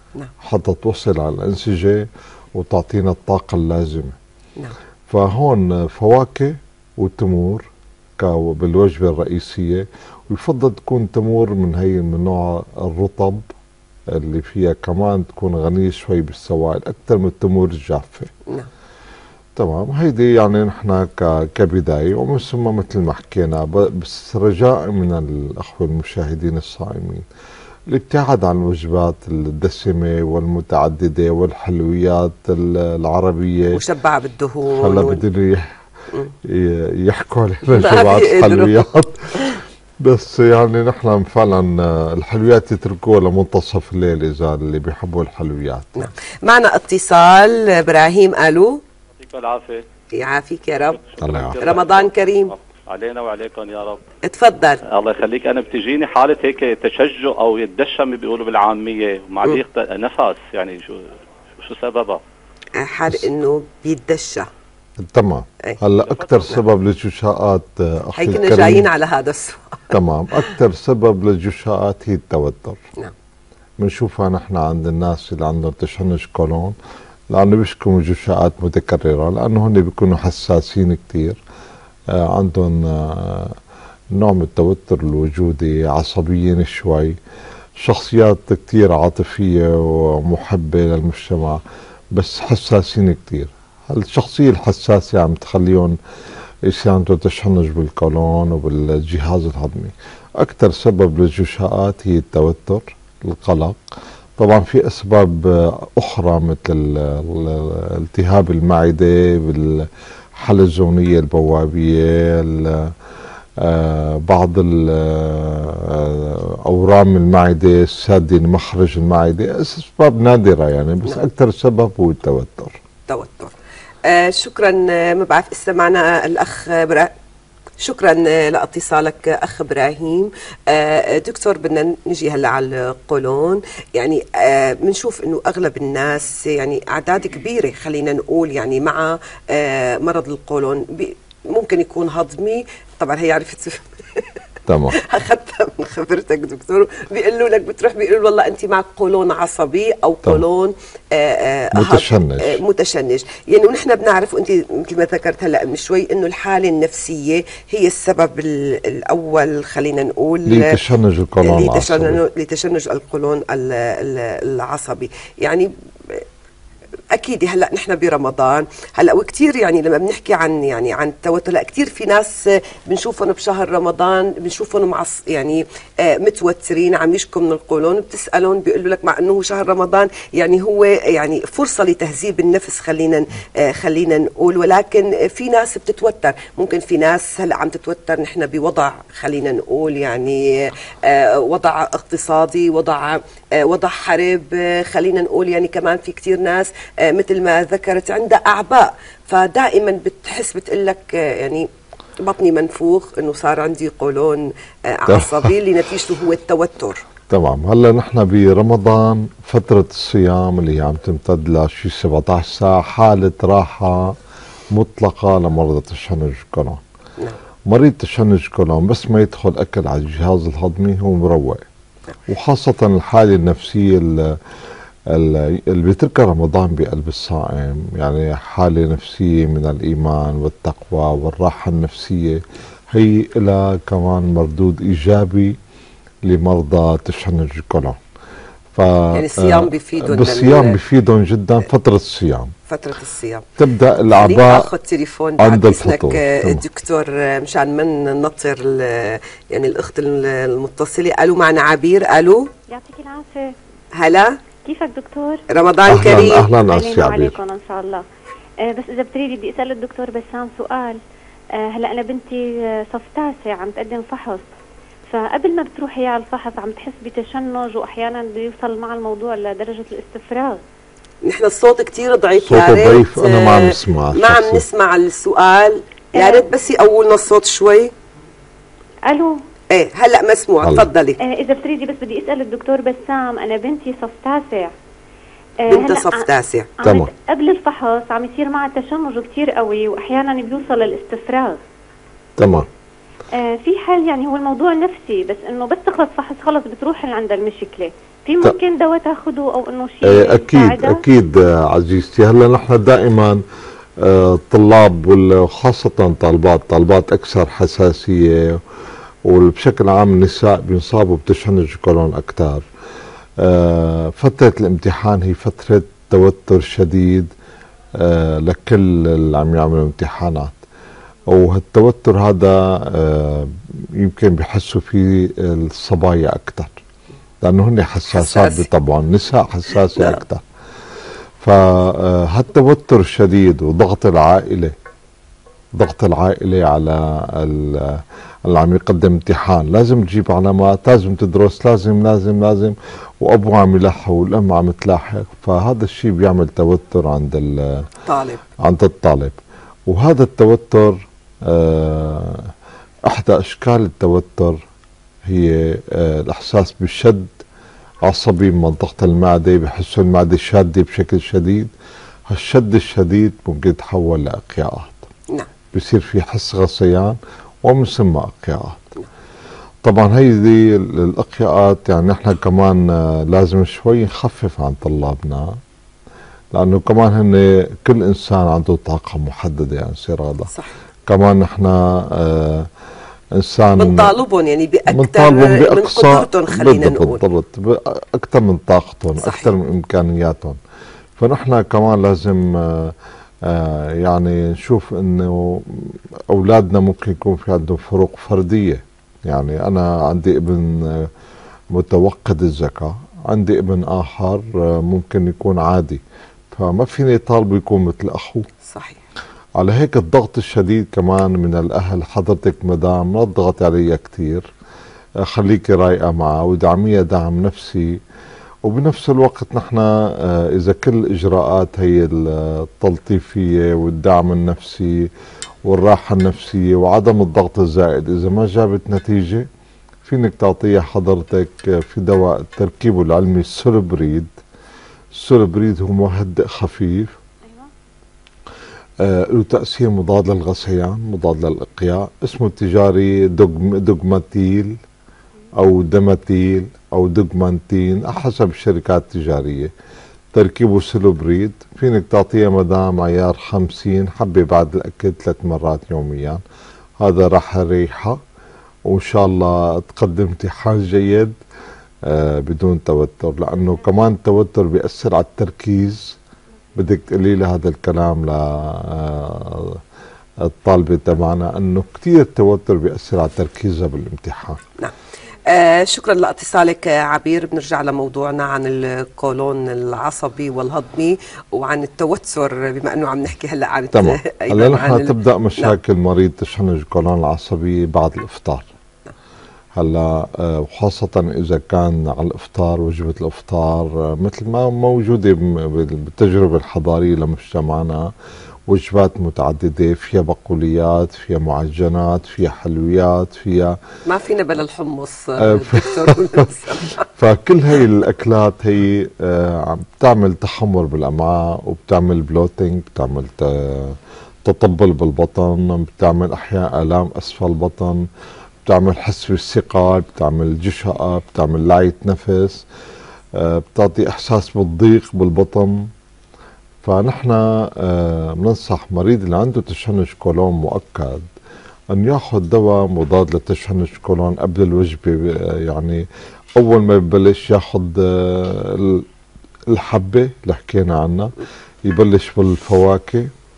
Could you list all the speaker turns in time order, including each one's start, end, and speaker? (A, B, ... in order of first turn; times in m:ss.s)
0:00.4-0:04.2 A
0:05.1-0:13.5 A
0:14.1-0:18.3 A
0:19.6-0:27.3 A
0:27.9-0:33.8 A
0:33.7-0:35.2 B
0:34.8-0:35.7 A
0:36.4-0:46.1 A
0:37.7-0:38.9 B
0:46.0-0:48.8 B
0:49.2-0:49.8 C
0:50.2-0:51.0 B
0:51.0-0:54.0 C
0:51.2-0:51.6 A
0:51.6-0:52.5 B
0:54.2-0:54.8 B
0:54.9-1:02.2 C
1:02.8-1:04.5 B
1:05.0-1:08.9 A
1:08.2-1:09.9 B
1:09.9-1:12.8 A
1:13.8-1:16.8 A
1:17.3-1:21.4 A
1:22.1-1:23.6 A
1:24.1-1:27.2 A
1:27.8-1:31.6 A
1:32.1-1:36.0 A
1:36.7-1:52.9 A
1:53.6-2:02.8 A
2:03.1-2:03.5 B
2:04.1-2:07.1 B
2:07.8-2:24.2 B
2:24.7-2:25.0 A
2:25.0-2:40.8 B
2:31.8-2:32.6 A
2:40.5-2:42.2 A
2:41.4-2:46.2 B
2:47.1-3:21.7 B
3:22.2-3:27.0 B
3:25.1-3:25.6 A
3:27.3-3:34.2 A
3:34.7-3:36.8 A
3:37.7-3:41.6 A
3:42.3-3:44.4 A
3:45.1-3:55.6 A
3:56.2-3:58.0 A
3:58.7-4:02.5 A
3:59.1-4:00.8 B
4:02.7-4:03.5 B
4:03.6-4:04.7 A
4:04.1-4:12.5 B
4:05.4-4:06.6 A
4:12.7-4:13.5 D
4:14.0-4:14.4 B
4:14.6-4:15.4 D
4:15.5-4:16.5 B
4:15.9-4:17.4 A
4:16.3-4:18.0 D
4:18.6-4:21.0 D
4:21.6-4:24.4 D
4:25.1-4:30.6 D
4:31.2-4:37.9 B
4:32.4-4:34.6 A
4:36.2-4:36.5 D
4:39.1-4:39.4 D
4:39.7-4:41.2 B
4:40.6-4:40.9 A
4:41.2-4:44.7 D
4:45.7-4:46.2 D
4:45.7-4:46.7 B
4:46.8-4:51.6 D
4:46.8-4:47.1 A
4:52.4-4:52.7 A
4:53.4-5:01.0 D
5:00.0-5:03.4 A
5:04.0-5:08.6 A
5:09.2-5:12.7 A
5:13.4-5:17.3 A
5:18.0-5:20.6 A
5:21.3-5:26.8 A
5:27.4-5:30.4 A
5:28.1-5:28.7 B
5:31.4-5:34.8 A
5:35.8-5:47.9 A
5:48.1-5:48.4 B
5:48.6-5:52.5 A
5:53.1-5:54.6 A
5:55.3-5:57.4 A
5:58.0-6:01.7 A
6:02.3-6:05.1 A
6:05.7-6:08.9 A
6:09.8-6:15.6 A
6:16.5-6:20.5 A
6:21.1-6:22.7 A
6:23.4-6:24.2 A
6:23.8-6:27.2 B
6:24.9-6:30.6 A
6:29.2-6:29.5 B
6:31.2-6:41.1 A
6:41.7-6:48.5 A
6:48.7-6:49.0 B
6:49.6-6:54.5 A
6:55.2-6:58.0 A
6:58.6-7:05.1 A
7:05.6-7:09.5 A
7:10.0-7:14.4 A
7:15.1-7:17.2 A
7:19.0-7:24.8 A
7:25.6-7:29.7 A
7:30.3-7:36.4 A
7:37.0-7:38.2 A
7:38.8-7:41.4 A
7:42.0-7:46.2 A
7:46.8-7:49.8 A
7:50.4-7:54.6 A
7:55.5-8:05.7 B
8:03.9-8:08.7 A
8:09.8-8:18.1 A
8:18.7-8:23.8 A
8:24.1-8:27.0 B
8:25.4-8:26.5 A
8:27.2-8:38.1 A
8:38.6-8:42.6 A
8:43.4-8:45.9 A
8:46.8-8:51.3 A
8:51.9-8:59.0 A
8:59.7-9:03.3 A